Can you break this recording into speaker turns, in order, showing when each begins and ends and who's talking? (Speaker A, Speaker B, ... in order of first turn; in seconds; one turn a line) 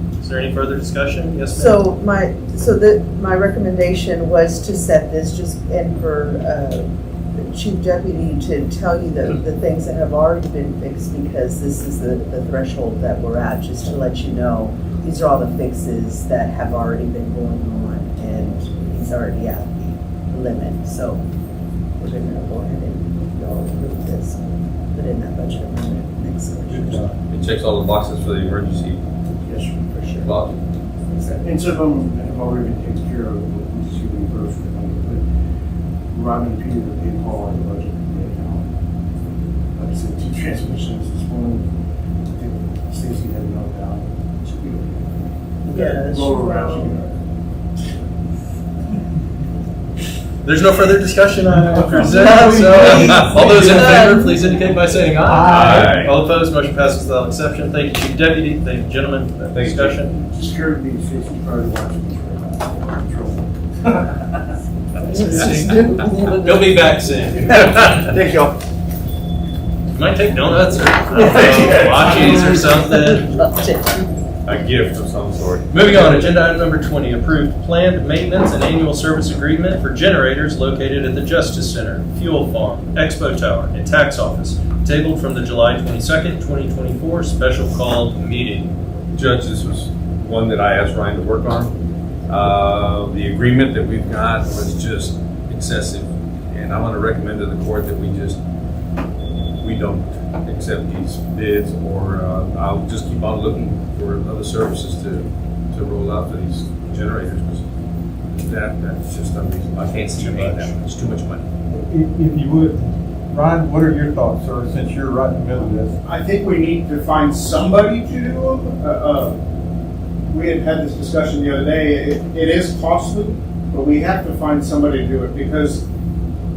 Speaker A: 0.2-1.8
Speaker B: 1.5-21.2
Speaker B: 22.0-27.1
Speaker C: 26.7-27.1
Speaker D: 27.3-29.0
Speaker E: 29.4-30.0
Speaker B: 29.9-30.3
Speaker D: 30.2-30.6
Speaker B: 31.1-31.4
Speaker E: 31.3-35.2
Speaker E: 36.1-38.6
Speaker E: 39.8-41.7
Speaker E: 42.3-47.2
Speaker B: 45.7-47.0
Speaker A: 50.4-60.1
Speaker B: 52.1-54.4
Speaker C: 52.4-53.5
Speaker D: 52.9-53.4
Speaker C: 55.2-56.0
Speaker D: 55.4-56.2
Speaker D: 59.5-60.0
Speaker E: 60.1-64.5
Speaker B: 65.0-66.9
Speaker A: 65.1-68.2
Speaker E: 67.5-68.6
Speaker A: 69.9-73.4
Speaker B: 71.1-74.2
Speaker E: 71.2-72.7
Speaker D: 74.5-76.3
Speaker A: 75.7-88.8
Speaker D: 89.2-91.7
Speaker D: 92.3-98.4
Speaker D: 99.6-107.7
Speaker D: 108.3-111.5
Speaker A: 109.9-110.8
Speaker C: 111.7-116.0
Speaker F: 116.0-119.4
Speaker F: 120.3-125.8